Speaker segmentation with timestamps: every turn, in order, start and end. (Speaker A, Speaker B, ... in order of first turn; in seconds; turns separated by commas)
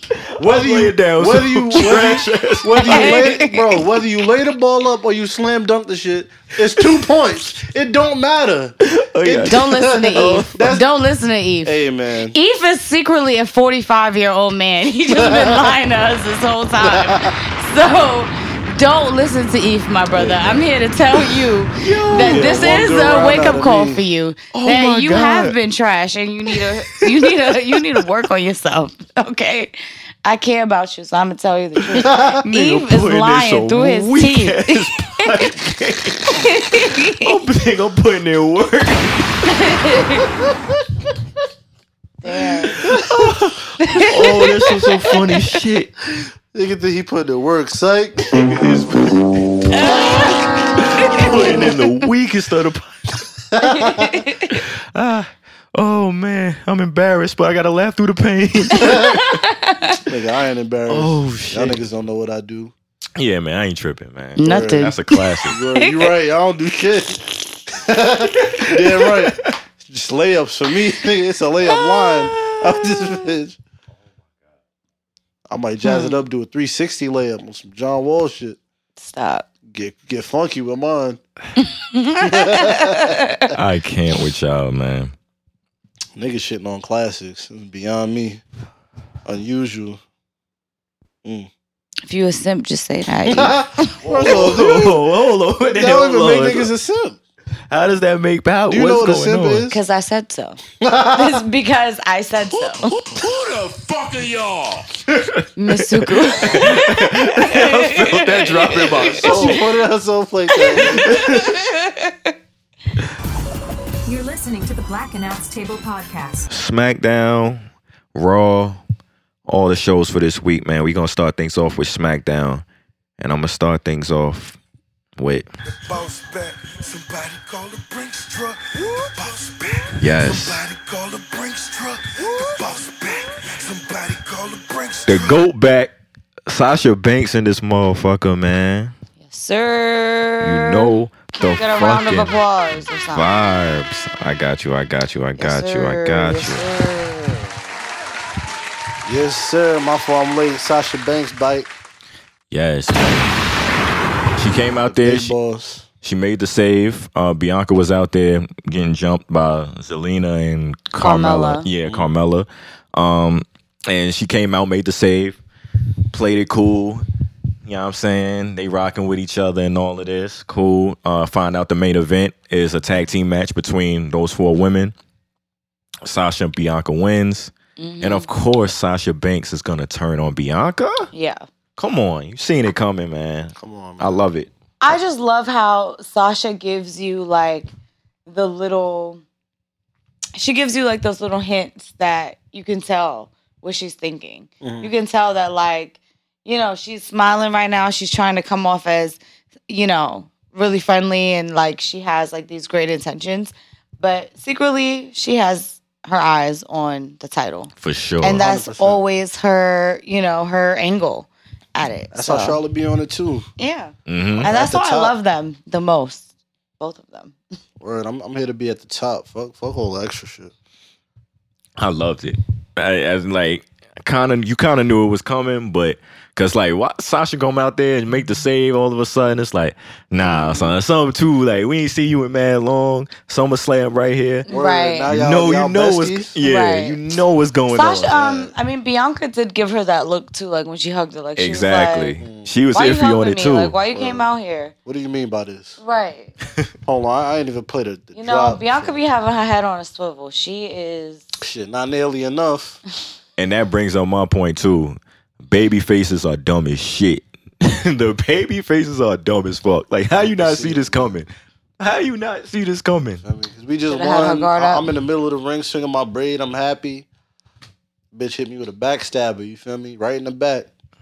Speaker A: 0.2-3.3, Speaker B: 0.4-10.8, Speaker C: 1.8-2.2, Speaker C: 2.8-3.9, Speaker A: 8.8-10.7, Speaker C: 9.5-11.8, Speaker B: 11.6-12.4, Speaker C: 12.3-35.5, Speaker B: 15.1-15.7, Speaker B: 16.8-17.3, Speaker B: 20.1-20.6, Speaker A: 21.8-22.7, Speaker B: 22.2-24.0, Speaker A: 24.5-25.6, Speaker A: 27.0-27.8, Speaker A: 31.9-39.5, Speaker B: 32.0-32.3, Speaker C: 36.4-37.3, Speaker C: 39.5-40.3, Speaker C: 42.2-42.9, Speaker B: 42.8-43.2, Speaker A: 42.9-46.0, Speaker C: 43.8-44.9, Speaker B: 46.5-48.3, Speaker A: 48.3-50.1, Speaker C: 49.7-51.8, Speaker A: 50.8-53.2, Speaker B: 53.5-54.2, Speaker C: 53.6-54.6, Speaker A: 54.5-59.3, Speaker C: 58.8-60.0, Speaker B: 58.8-59.1, Speaker B: 60.1-62.7, Speaker A: 60.9-61.8, Speaker A: 63.2-65.6, Speaker C: 64.4-65.2, Speaker B: 64.4-64.9, Speaker B: 65.5-73.6, Speaker A: 68.5-69.5, Speaker B: 75.5-78.6, Speaker C: 75.8-76.2, Speaker C: 79.0-79.5, Speaker B: 79.7-81.2, Speaker C: 81.6-83.5, Speaker B: 82.2-83.2, Speaker A: 83.5-85.1, Speaker B: 86.2-88.4, Speaker B: 89.3-90.0, Speaker B: 91.2-91.5, Speaker C: 92.1-94.3, Speaker B: 93.3-95.0, Speaker A: 94.1-96.7, Speaker B: 95.7-97.2, Speaker A: 97.7-99.7, Speaker B: 98.7-99.8, Speaker C: 99.7-100.6, Speaker B: 100.8-101.4, Speaker C: 101.1-103.0, Speaker D: 103.1-104.9, Speaker A: 105.1-109.6, Speaker C: 105.6-109.6, Speaker B: 108.9-111.2, Speaker C: 110.5-112.3, Speaker A: 110.9-111.7, Speaker E: 114.1-116.5, Speaker A: 116.5-117.6, Speaker A: 118.2-118.8, Speaker A: 119.5-122.6, Speaker A: 123.2-124.6, Speaker A: 125.2-125.5, Speaker D: 125.7-135.5, Speaker A: 130.0-130.7, Speaker A: 135.1-135.9, Speaker A: 136.5-138.9, Speaker C: 139.2-143.3, Speaker A: 140.4-142.3, Speaker A: 143.1-146.6, Speaker C: 145.4-147.6, Speaker B: 149.0-151.7, Speaker A: 152.5-153.4, Speaker A: 154.4-155.3, Speaker B: 154.9-155.9, Speaker A: 156.0-165.4, Speaker C: 161.0-161.7, Speaker A: 166.1-167.1, Speaker A: 167.7-174.9, Speaker A: 176.0-181.1, Speaker C: 177.8-178.3, Speaker C: 181.1-181.4, Speaker A: 181.8-184.5, Speaker B: 183.6-184.2, Speaker C: 184.8-187.7, Speaker C: 188.3-189.2, Speaker C: 190.4-212.6, Speaker B: 194.6-194.9, Speaker A: 207.8-208.4, Speaker B: 208.2-209.0, Speaker B: 212.1-213.5, Speaker C: 213.6-216.3, Speaker A: 214.1-214.5, Speaker B: 214.4-215.1, Speaker C: 216.8-217.4, Speaker B: 217.8-220.5, Speaker A: 221.8-234.5, Speaker C: 230.2-230.7, Speaker C: 234.5-235.1, Speaker B: 234.5-236.3, Speaker A: 235.1-238.1, Speaker C: 236.4-237.0, Speaker C: 237.7-242.2, Speaker B: 238.1-238.5, Speaker A: 241.4-243.8, Speaker B: 242.2-242.6, Speaker C: 242.7-244.7, Speaker B: 243.9-244.3, Speaker B: 244.8-245.8, Speaker C: 245.8-246.3, Speaker B: 246.8-249.0, Speaker C: 248.2-251.3, Speaker B: 251.4-252.8, Speaker A: 253.4-263.2, Speaker B: 260.2-261.2, Speaker B: 263.2-267.1, Speaker C: 263.9-264.9, Speaker B: 268.1-270.7